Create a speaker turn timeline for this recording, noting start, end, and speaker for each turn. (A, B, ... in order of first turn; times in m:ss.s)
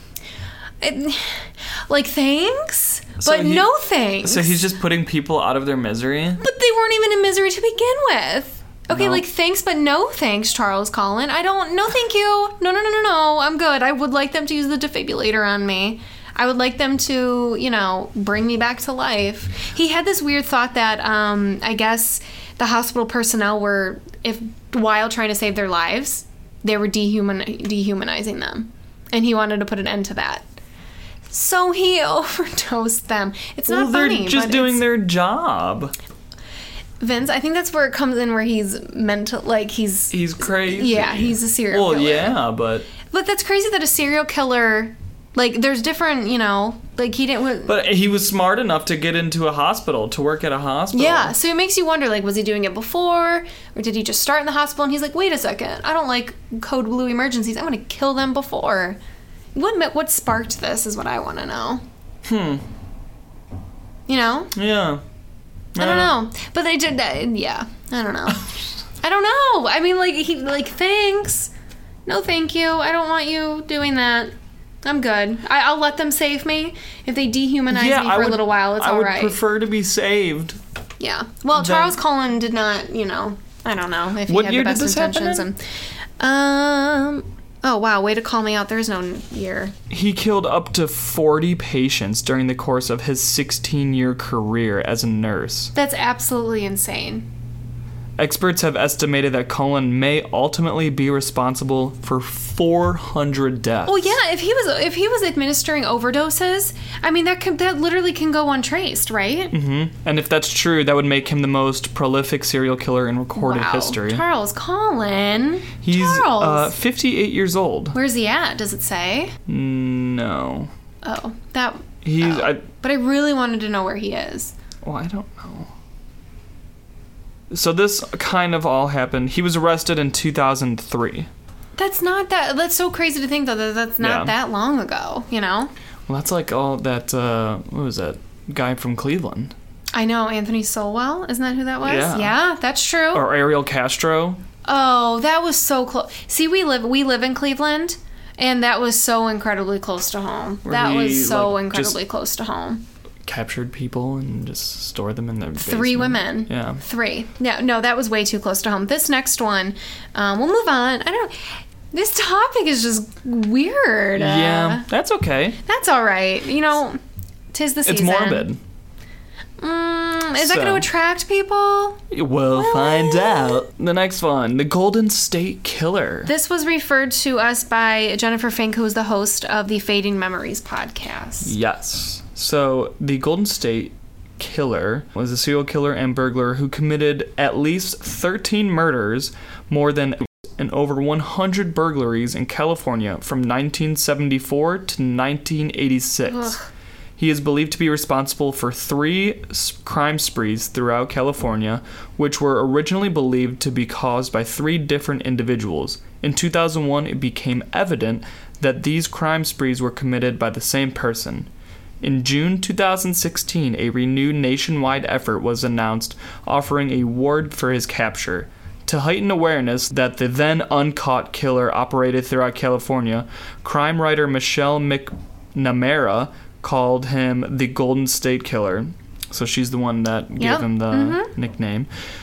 0:00.8-0:04.7 A
0:03.2-0:03.7 B
0:04.2-0:06.4 B
0:06.4-0:30.4 A
0:08.9-0:09.2 B
0:31.3-0:34.8 A
0:33.7-0:35.9 B
0:37.0-0:42.4 A
0:40.1-0:42.9 B
0:43.1-0:47.8 A
0:47.6-0:51.4 B
0:50.9-0:59.0 A
0:59.6-1:01.8 A
1:02.2-1:02.6 B
1:04.1-1:04.5 A
1:04.6-1:05.0 B
1:05.8-1:06.2 B
1:05.8-1:08.5 A
1:09.0-1:11.5 A
1:12.1-1:14.3 A
1:14.8-1:19.4 A
1:17.7-1:20.6 B
1:21.0-1:25.6 A
1:21.5-1:22.0 B
1:24.3-1:25.5 B
1:26.2-1:29.7 A
1:29.9-1:35.7 B
1:35.8-1:37.3 A
1:38.2-1:44.2 B
1:43.9-1:49.5 A
1:49.5-1:54.2 B
1:53.4-1:56.7 A
1:55.8-1:58.0 B
1:57.9-1:59.4 A
1:59.5-2:00.7 B
2:01.0-2:04.5 A
2:02.0-2:02.6 B
2:04.8-2:05.7 B
2:07.5-2:11.3 B
2:11.8-2:15.7 A
2:14.0-2:14.3 B
2:16.1-2:19.6 B
2:19.9-2:23.3 A
2:21.8-2:22.4 B
2:23.1-2:24.4 B
2:24.6-2:32.8 A
2:30.6-2:32.0 B
2:33.2-2:36.8 B
2:35.6-2:41.4 A
2:41.9-2:44.9 A
2:44.2-2:45.6 B
2:45.6-2:47.0 A
2:47.5-2:48.5 A
2:47.8-2:48.6 B
2:49.6-2:52.0 A
2:50.4-2:50.9 B
2:52.1-2:56.3 B
2:52.6-2:53.6 A
2:56.3-3:01.5 A
3:01.4-3:16.6 B
3:16.3-3:16.6 A
3:17.2-3:31.5 B
3:32.0-3:51.9 B
3:50.4-3:51.3 A